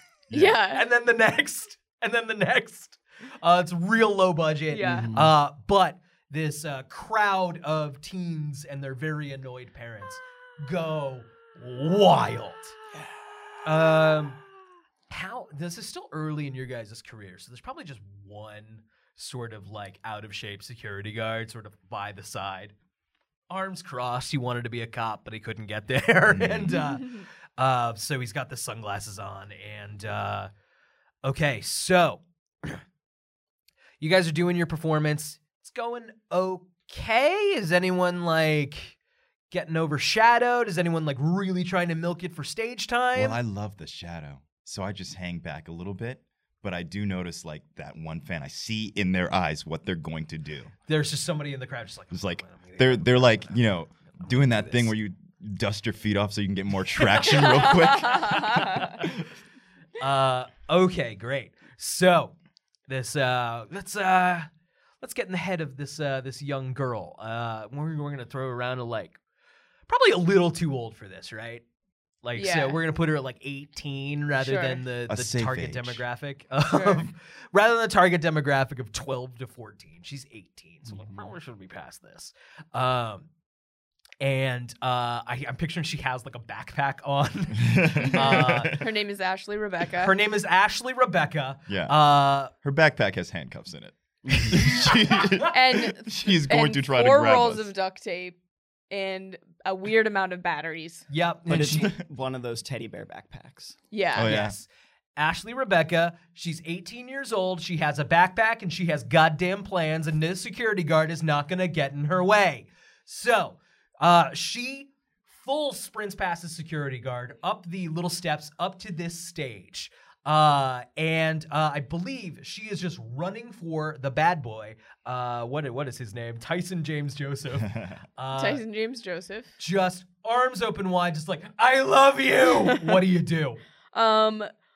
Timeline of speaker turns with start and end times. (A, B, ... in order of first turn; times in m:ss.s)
0:00.3-0:00.9 A
0:00.5-0:12.8 B
0:04.7-0:05.1 A
0:04.9-0:05.3 C
0:13.6-0:14.4 B
0:15.1-0:22.8 B
0:23.5-0:30.5 B
0:26.3-0:26.8 D
0:31.2-0:32.8 B
0:34.0-0:39.0 B
0:39.5-0:43.4 B
0:43.1-0:50.7 D
0:50.9-0:54.9 B
0:52.1-0:59.3 D
0:58.1-0:58.5 A
0:58.6-0:59.0 B
1:00.0-1:02.3 B
1:02.9-1:04.5 B
1:05.0-1:09.2 B
1:09.9-1:11.6 B
1:12.2-1:23.3 B
1:12.4-1:12.8 A
1:14.4-1:14.8 A
1:15.1-1:16.0 D
1:16.7-1:17.1 A
1:20.9-1:21.3 C
1:24.2-1:28.8 B
1:27.6-1:28.9 D
1:28.1-1:30.1 A
1:30.0-1:32.5 B
1:31.7-1:32.0 D
1:32.6-1:37.7 D
1:34.3-1:34.5 C
1:35.4-1:38.4 A
1:38.9-1:41.1 A
1:41.1-1:41.9 B
1:41.5-1:43.8 C
1:43.9-1:44.3 A
1:44.1-1:44.6 D
1:44.2-2:08.6 B
2:07.6-2:08.0 D
2:08.3-2:09.5 A
2:09.6-2:13.6 B
2:12.5-2:12.9 A
2:13.9-2:14.5 A